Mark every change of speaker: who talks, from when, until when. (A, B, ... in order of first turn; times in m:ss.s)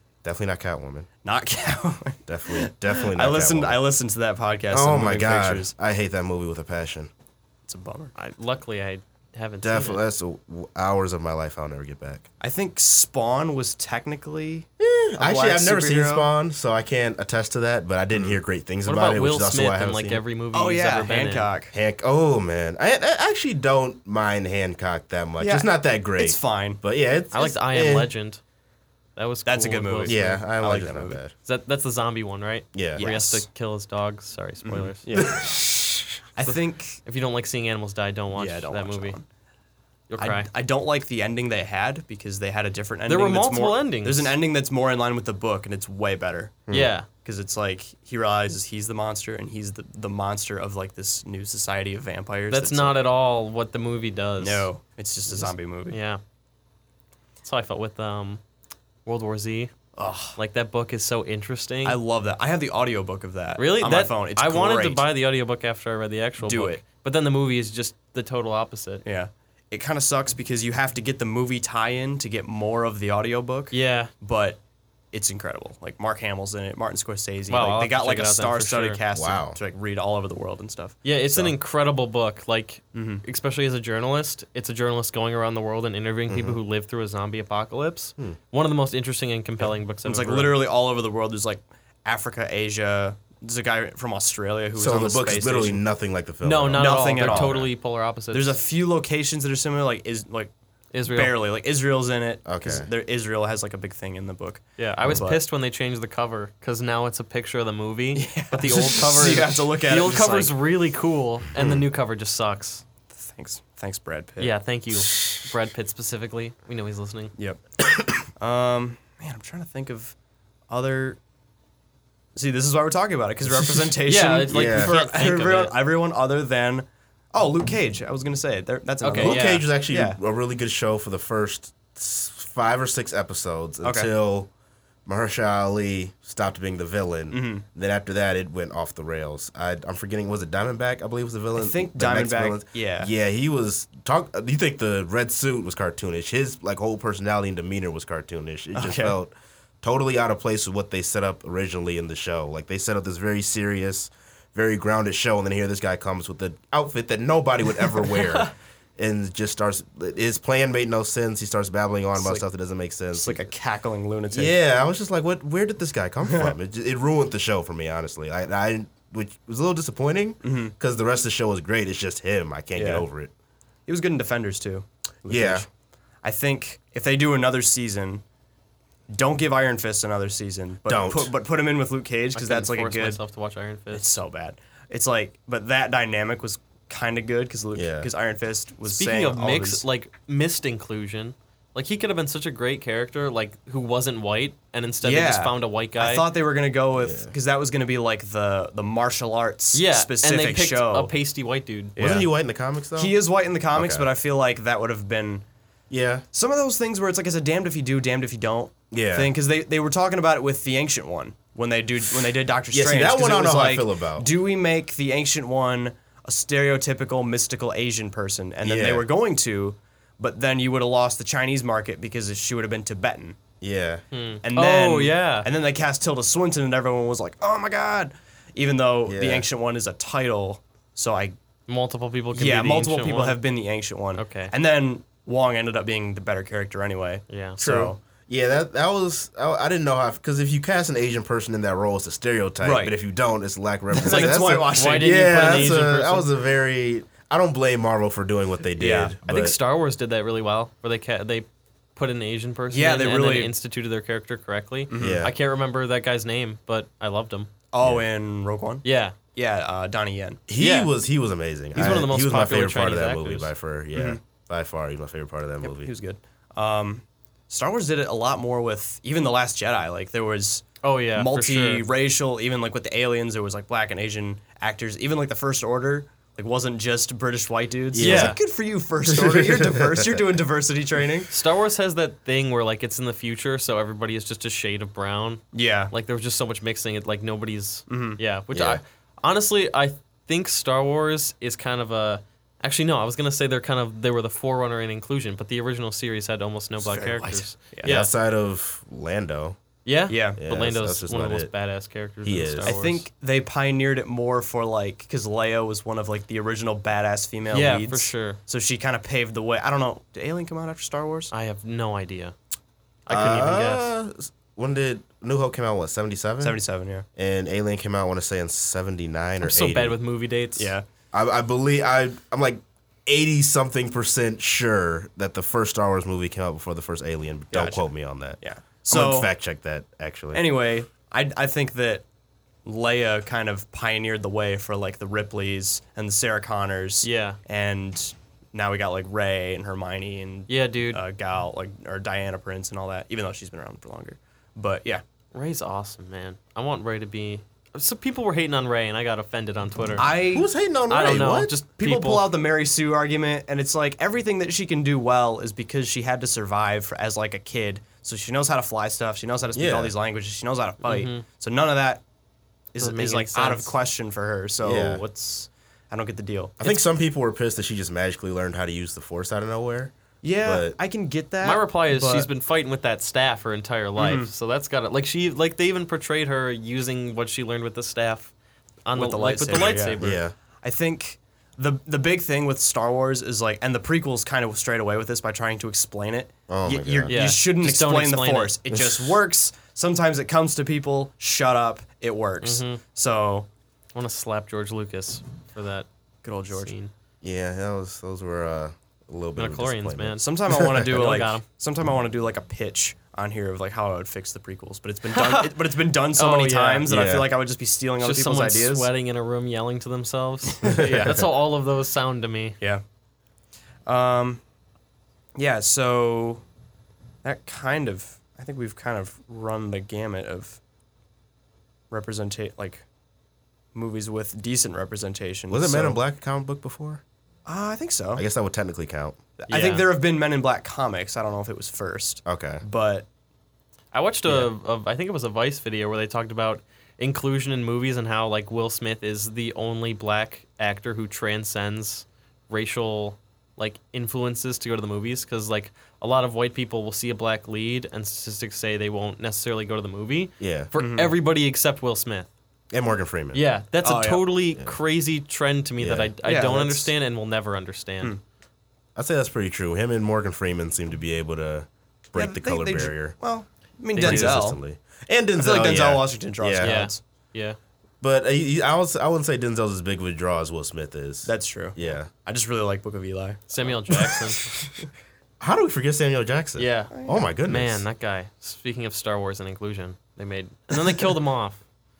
0:00.2-0:01.1 A
0:01.2-0:05.7 B
0:02.3-0:03.8 A
0:04.7-0:07.1 A
0:07.7-0:08.1 B
0:08.2-0:10.0 C
0:09.6-0:12.3 A
0:12.4-0:16.3 B
0:14.8-0:20.2 A
0:18.1-0:18.4 B
0:18.8-0:21.5 C
0:20.5-0:21.7 B
0:21.7-0:28.1 A
0:25.4-0:26.8 B
0:27.3-0:28.4 C
0:29.2-0:30.3 C
0:29.4-0:31.2 B
0:30.0-0:31.3 A
0:31.4-0:35.2 C
0:32.7-0:33.0 A
0:33.0-0:33.4 B
0:34.6-0:35.5 B
0:35.1-0:36.1 A
0:36.3-0:37.0 B
0:36.4-0:39.2 C
0:38.3-0:39.2 B
0:40.1-0:40.5 C
0:40.2-0:46.6 B
0:43.1-0:44.3 C
0:46.7-0:46.9 A
0:46.7-0:47.1 C
0:47.2-0:53.0 B
0:52.5-0:54.7 C
0:54.4-0:56.0 B
0:55.3-0:56.2 C
0:57.4-0:58.4 C
0:59.0-0:59.7 C
1:00.0-1:00.4 B
1:00.4-1:02.0 C
1:01.8-1:05.0 B
1:03.6-1:09.0 C
1:06.4-1:06.8 B
1:09.0-1:14.6 B
1:13.7-1:14.1 C
1:15.1-1:21.5 B
1:17.5-1:19.0 C
1:19.1-1:19.6 A
1:21.0-1:30.6 C
1:22.9-1:23.2 B
1:26.3-1:26.6 A
1:29.6-1:35.8 B
1:34.8-1:37.7 A
1:36.4-1:38.6 C
1:36.7-1:37.7 B
1:38.3-1:40.5 B
1:40.9-1:41.4 C
1:41.1-1:45.4 B
1:42.4-1:42.9 A
1:44.8-1:52.8 C
1:48.1-1:50.6 B
1:53.1-1:54.5 B
1:54.4-1:57.3 C
1:57.4-1:57.6 B
1:58.4-2:00.1 B
2:00.7-2:01.2 B
2:02.4-2:10.2 B
2:04.0-2:05.8 C
2:04.5-2:04.9 A
2:09.0-2:09.6 C
2:09.2-2:14.5 A
2:13.8-2:14.1 B
2:15.0-2:43.5 A
2:17.3-2:17.6 B
2:21.5-2:23.1 B
2:28.7-2:29.2 B
2:42.2-2:42.4 B
2:43.1-2:44.6 B
2:44.3-2:53.3 A
2:46.2-2:46.5 B
2:50.4-2:50.7 B
2:52.8-2:53.0 B
2:53.9-2:55.7 B
2:55.2-2:55.6 A
2:56.2-2:58.2 B
2:59.1-3:03.2 B
3:00.9-3:01.3 A
3:02.3-3:04.2 C
3:03.9-3:09.8 B
3:07.8-3:08.1 A
3:08.8-3:16.3 C
3:15.0-3:21.1 B
3:17.0-3:17.3 A
3:19.7-3:22.0 C
3:22.0-3:22.3 B
3:22.0-3:23.1 A
3:23.0-3:25.4 B
3:23.7-3:24.1 A
3:25.9-3:26.2 A
3:26.3-3:43.4 B
3:28.9-3:29.3 A
3:32.7-3:34.3 A
3:38.6-3:39.0 A
3:43.6-3:44.0 A
3:44.1-3:45.5 C
3:44.4-3:51.4 B
3:49.0-3:49.5 A
3:51.7-3:53.4 C
3:52.3-3:58.0 B
3:54.2-3:54.5 C
3:57.3-3:57.9 C
3:57.7-4:09.6 A
4:02.6-4:02.9 B
4:03.9-4:05.2 B
4:04.0-4:06.3 C
4:08.8-4:09.1 B
4:09.2-4:17.5 C
4:12.7-4:13.5 B
4:14.9-4:15.3 B
4:15.0-4:15.3 A
4:17.7-4:20.4 B
4:18.8-4:19.2 C
4:20.5-4:25.9 A
4:20.6-4:20.9 C
4:21.7-4:23.5 C
4:23.9-4:24.2 B
4:25.6-4:41.3 B
4:30.8-4:31.8 C
4:37.9-4:38.4 A
4:38.0-4:38.4 C
4:39.1-4:40.2 A
4:41.3-4:58.1 C
4:45.5-4:45.9 B
4:47.9-4:48.2 B
4:48.5-4:48.8 A
4:56.8-4:58.0 B
4:57.8-4:59.6 A
4:59.8-5:03.0 C
5:00.1-5:00.4 B
5:00.4-5:01.5 A
5:02.2-5:02.8 A
5:02.6-5:11.3 B
5:07.5-5:08.4 C
5:11.3-5:12.3 C
5:13.1-5:13.9 C
5:13.1-5:16.6 A
5:16.4-5:17.0 B
5:17.2-5:20.0 A
5:19.4-5:20.7 C
5:20.6-5:20.8 B
5:21.1-5:30.4 A
5:27.5-5:27.8 B
5:28.4-5:29.3 B
5:30.3-5:32.0 B
5:32.6-5:45.0 B
5:37.0-5:37.4 C
5:40.5-5:41.0 C
5:45.3-5:50.1 C
5:50.0-5:50.5 B
5:50.3-5:51.5 A
5:50.9-5:52.3 C
5:51.8-6:02.0 B
5:59.5-5:59.9 A
6:00.8-6:01.2 C
6:02.7-6:06.8 B
6:02.8-6:03.7 C
6:04.6-6:05.0 A
6:06.6-6:10.8 A
6:10.2-6:12.3 B
6:11.4-6:18.3 C
6:14.0-6:14.3 B
6:18.8-6:20.2 C
6:19.0-6:33.5 B
6:20.0-6:20.3 A
6:26.5-6:27.1 A
6:27.1-6:28.5 C
6:32.4-6:32.8 C
6:34.0-6:35.8 C
6:36.2-6:36.7 B
6:36.5-6:36.9 C
6:37.2-6:40.8 A
6:39.4-6:41.4 C
6:40.2-6:48.9 B
6:45.1-6:46.9 C
6:46.9-6:47.3 A
6:48.0-6:52.6 C
6:50.6-6:51.0 B
6:50.7-6:51.2 A
6:53.8-6:54.4 B
6:55.3-6:56.4 B
6:57.2-7:00.6 B
7:01.9-7:02.8 B
7:03.7-7:06.0 B
7:05.5-7:07.0 A
7:07.5-7:08.2 B
7:08.2-7:09.5 A
7:09.5-7:09.9 C
7:09.5-7:13.1 B
7:12.2-7:12.6 A
7:13.9-7:32.3 C
7:30.4-7:30.7 A
7:30.8-7:31.1 B
7:32.7-7:33.4 A
7:33.3-7:38.1 C
7:33.8-7:34.2 B
7:35.8-7:36.1 A
7:36.2-7:36.9 B
7:39.0-7:43.1 A
7:42.1-7:44.6 B
7:44.0-7:44.4 C
7:44.0-7:46.8 A
7:45.4-7:47.0 B
7:46.6-7:47.6 C
7:48.0-7:52.1 A
7:51.2-7:54.1 B
7:53.5-7:54.4 C
7:54.1-7:54.7 A
7:55.4-7:57.8 A
7:56.6-8:01.6 C
7:56.9-7:57.3 B
8:00.7-8:01.2 B